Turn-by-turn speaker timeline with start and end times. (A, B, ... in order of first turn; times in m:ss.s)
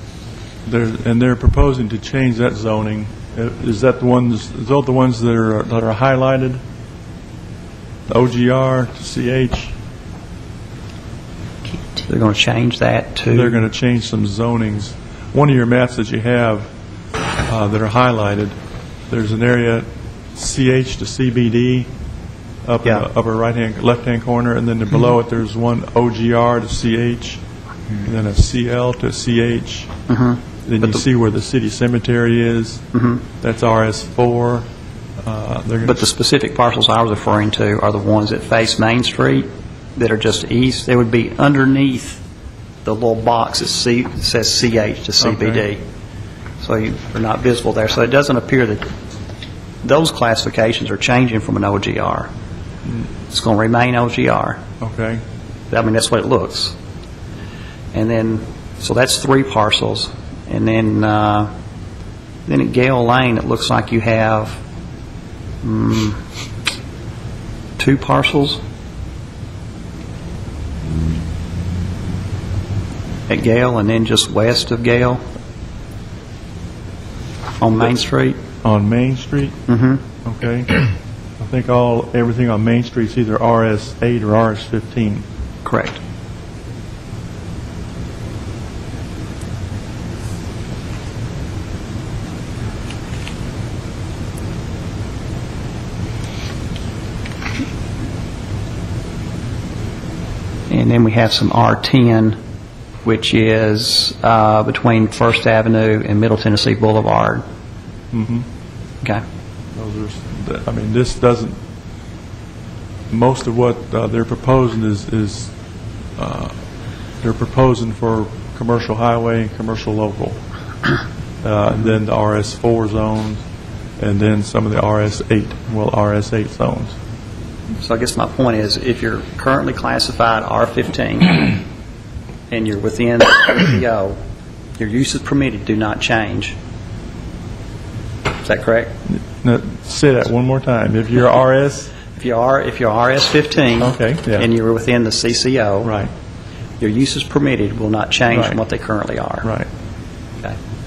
0:00.7-0:06.6 A
0:08.1-0:09.7 A
0:12.1-0:13.6 B
0:13.3-0:16.7 A
0:17.5-0:18.6 A
0:19.1-0:21.9 A
0:22.6-0:27.4 A
0:28.0-0:29.9 A
0:30.1-0:31.0 B
0:30.7-0:32.8 A
0:32.9-0:33.2 B
0:33.4-0:34.7 A
0:35.2-0:36.0 A
0:35.9-0:42.2 B
0:42.8-0:45.8 B
0:45.2-0:45.6 A
0:46.6-0:48.8 B
0:49.8-0:52.3 B
0:53.3-0:54.6 B
0:54.8-0:55.2 A
0:55.7-0:56.8 B
0:57.9-1:01.5 B
1:02.5-1:04.6 B
1:05.6-1:06.2 B
1:07.8-1:08.6 B
1:13.3-1:15.2 B
1:17.6-1:18.4 B
1:18.6-1:19.6 A
1:19.7-1:20.0 B
1:20.2-1:20.9 A
1:21.4-1:25.2 A
1:25.6-1:26.0 B
1:40.7-1:42.4 B
1:43.0-1:47.4 B
1:48.1-1:48.5 A
1:49.8-1:51.6 A
1:53.1-1:55.5 A
1:56.2-1:56.5 A
1:57.2-2:00.4 A
2:01.4-2:03.4 A
2:04.0-2:07.0 A
2:07.8-2:11.6 B
2:12.5-2:14.2 B
2:14.8-2:16.6 B
2:18.4-2:18.9 B
2:19.1-2:21.9 A
2:22.2-2:25.9 B
2:23.8-2:24.5 A
2:25.8-2:26.1 A
2:26.8-2:29.5 B
2:28.3-2:28.6 A